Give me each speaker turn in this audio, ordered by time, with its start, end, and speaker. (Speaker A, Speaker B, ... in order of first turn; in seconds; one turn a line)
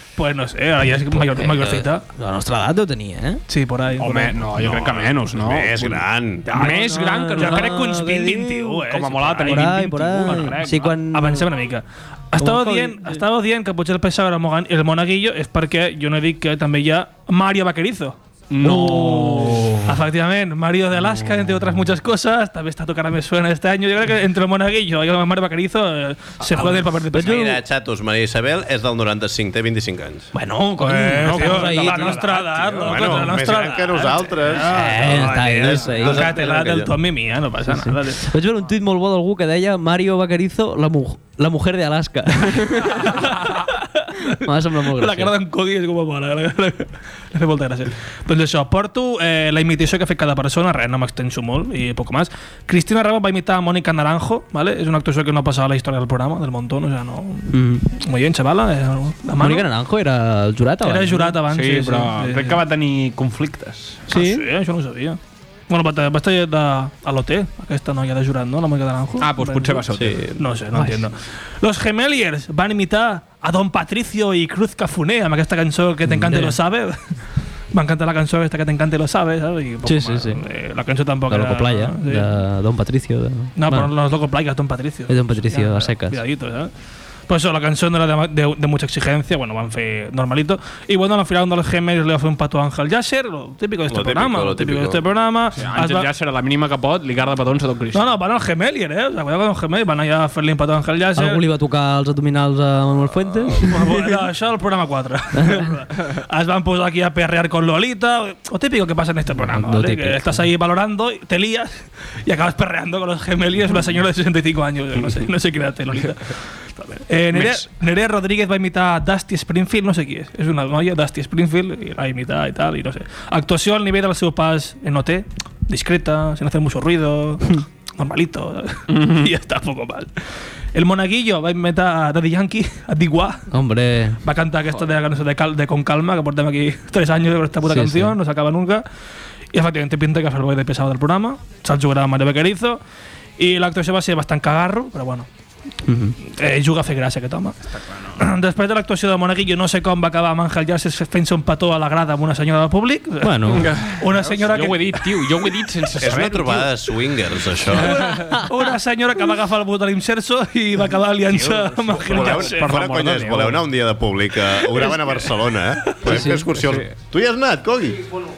Speaker A: 0.2-2.0
Speaker B: 1.2-3.4
Speaker A: 3.5-4.5
Speaker C: 4.0-7.9
Speaker D: 4.6-6.5
Speaker A: 6.5-27.6
Speaker B: 6.6-8.8
Speaker C: 8.9-11.0
Speaker B: 9.4-11.5
Speaker B: 12.4-13.2
Speaker C: 18.5-20.0
Speaker C: 26.4-26.9
Speaker B: 27.1-27.6
Speaker D: 27.1-30.3
Speaker B: 30.4-32.3
Speaker A: 30.6-38.2
Speaker C: 30.9-33.6
Speaker D: 32.8-37.0
Speaker B: 34.7-36.4
Speaker B: 37.7-43.1
Speaker A: 42.8-59.7
Speaker B: 44.3-45.3
Speaker B: 57.5-57.9
Speaker B: 59.4-61.4
Speaker A: 60.8-62.6
Speaker C: 61.5-64.0
Speaker B: 64.1-64.4
Speaker A: 64.1-77.1
Speaker C: 69.2-70.2
Speaker D: 69.9-70.4
Speaker B: 70.7-71.1
Speaker B: 76.1-76.6
Speaker A: 77.7-82.3
Speaker B: 79.8-80.4
Speaker B: 81.3-83.9
Speaker A: 83.6-86.7
Speaker B: 85.1-86.2
Speaker A: 87.3-96.1
Speaker D: 93.9-95.0
Speaker C: 95.6-98.2
Speaker A: 97.9-101.4
Speaker B: 101.2-104.1
Speaker A: 103.5-130.2
Speaker B: 109.4-110.5
Speaker C: 117.3-117.7
Speaker C: 128.9-129.3
Speaker A: 130.7-133.5
Speaker B: 133.5-134.2
Speaker A: 134.2-138.8
Speaker B: 137.7-138.2
Speaker A: 139.5-142.8
Speaker A: 143.4-145.3
Speaker B: 145.8-146.2
Speaker A: 146.2-147.6
Speaker C: 147.7-148.2
Speaker A: 148.2-155.6
Speaker B: 153.2-153.7
Speaker C: 153.5-156.7
Speaker D: 156.0-158.2
Speaker C: 157.8-158.4
Speaker A: 157.8-162.7
Speaker C: 161.3-163.6
Speaker D: 162.1-168.2
Speaker A: 164.6-166.2
Speaker B: 166.1-166.4
Speaker C: 166.6-166.9